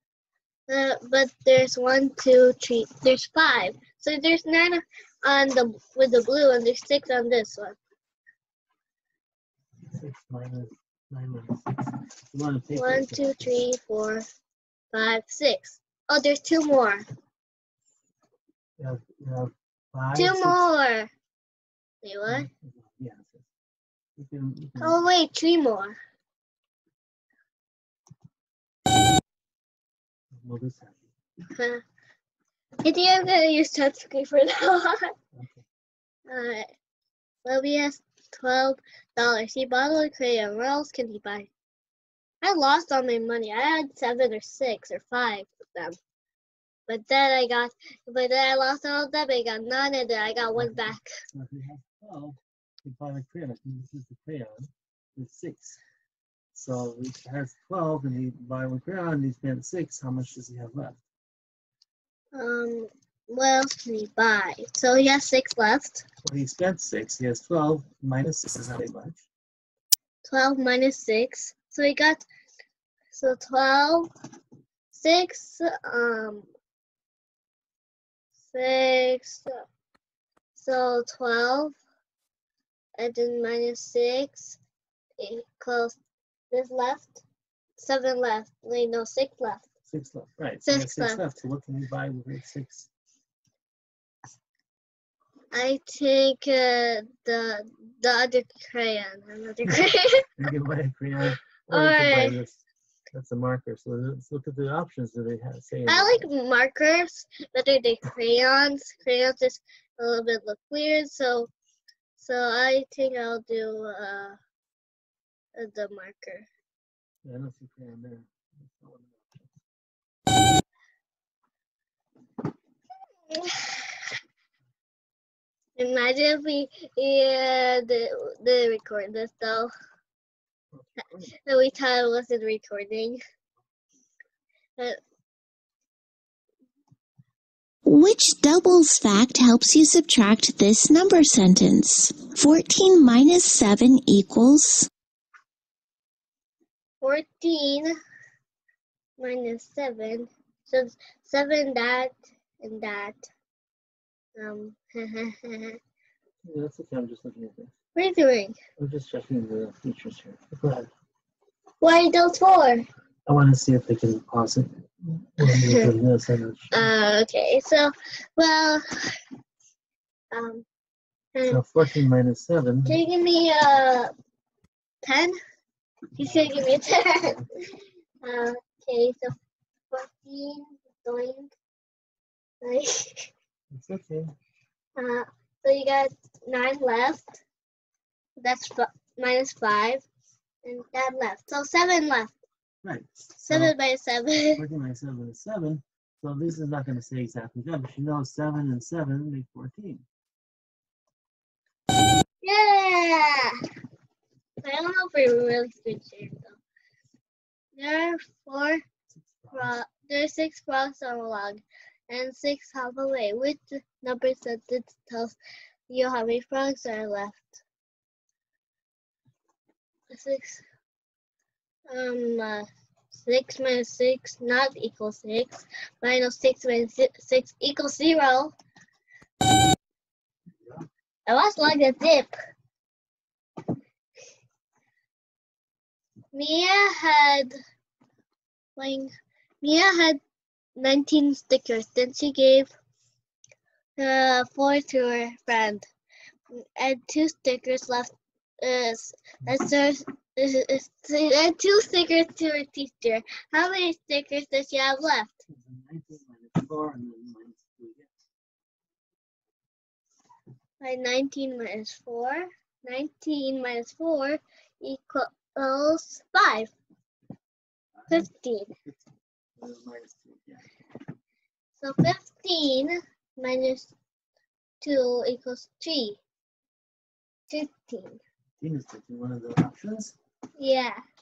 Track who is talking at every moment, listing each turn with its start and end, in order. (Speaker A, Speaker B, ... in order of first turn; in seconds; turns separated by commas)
Speaker A: 0.7-7.8, Speaker B: 9.9-13.3, Speaker A: 12.7-14.2, Speaker A: 14.9-17.0, Speaker B: 18.8-20.7, Speaker A: 20.1-21.1, Speaker A: 22.0-22.5, Speaker B: 22.3-23.5, Speaker B: 24.2-25.0, Speaker A: 24.8-26.0, Speaker B: 30.3-31.1, Speaker A: 31.5-31.8, Speaker A: 32.8-35.1, Speaker B: 35.3-35.6, Speaker A: 36.3-36.7, Speaker A: 37.4-41.5, Speaker A: 42.4-46.0, Speaker A: 46.9-51.1, Speaker B: 50.5-55.8, Speaker B: 56.5-61.0, Speaker A: 62.3-66.0, Speaker B: 66.2-69.3, Speaker A: 70.2-72.2, Speaker A: 73.1-74.1, Speaker A: 74.9-76.5, Speaker A: 78.4-79.6, Speaker A: 80.5-81.7, Speaker A: 83.0-84.6, Speaker A: 85.2-86.0, Speaker A: 86.5-87.2, Speaker A: 87.8-89.6, Speaker B: 89.9-92.9, Speaker A: 90.6-91.2, Speaker A: 95.5-100.3, Speaker B: 100.4-106.2, Speaker A: 101.7-102.4, Speaker A: 105.9-111.5, Speaker A: 112.2-114.4, Speaker A: 115.5-116.5, Speaker B: 117.2-119.5, Speaker A: 123.3-124.0, Speaker A: 125.8-129.7, Speaker B: 130.7-131.4, Speaker A: 131.3-133.2, Speaker C: 137.8-144.9, Speaker A: 147.0-147.9, Speaker A: 149.2-153.3, Speaker A: 154.4-155.8, Speaker B: 156.4-157.7, Speaker A: 157.9-158.6, Speaker B: 158.8-160.9, Speaker A: 161.8-162.8, Speaker B: 163.2-166.9, Speaker A: 165.4-165.9, Speaker A: 166.7-168.8, Speaker A: 170.3-170.7, Speaker A: 171.3-171.6, Speaker B: 171.4-173.0, Speaker A: 172.8-174.1, Speaker A: 175.0-175.4, Speaker A: 176.1-177.5, Speaker B: 176.2-176.6, Speaker A: 178.2-179.3, Speaker A: 179.9-181.5, Speaker A: 182.6-183.3, Speaker B: 183.7-184.3, Speaker A: 185.0-187.4, Speaker A: 188.4-190.0, Speaker A: 190.6-192.3, Speaker B: 192.8-193.8, Speaker A: 193.4-194.6, Speaker B: 194.5-200.1, Speaker A: 202.4-203.5, Speaker A: 204.6-206.6, Speaker A: 207.7-208.8, Speaker B: 209.1-209.7, Speaker A: 209.5-215.4, Speaker A: 215.9-217.6, Speaker A: 220.1-220.6, Speaker A: 221.9-228.5, Speaker B: 230.6-230.8, Speaker A: 231.3-232.3, Speaker A: 236.3-237.5, Speaker A: 238.8-239.1, Speaker A: 239.6-240.2, Speaker A: 240.8-242.7, Speaker A: 244.0-245.9, Speaker A: 246.5-255.4, Speaker B: 255.5-258.1, Speaker A: 260.8-266.7, Speaker B: 267.9-268.3, Speaker A: 268.1-268.7, Speaker B: 269.6-270.6, Speaker A: 271.8-273.9, Speaker A: 274.8-276.2, Speaker A: 277.5-278.2, Speaker B: 278.6-280.2, Speaker A: 280.6-281.0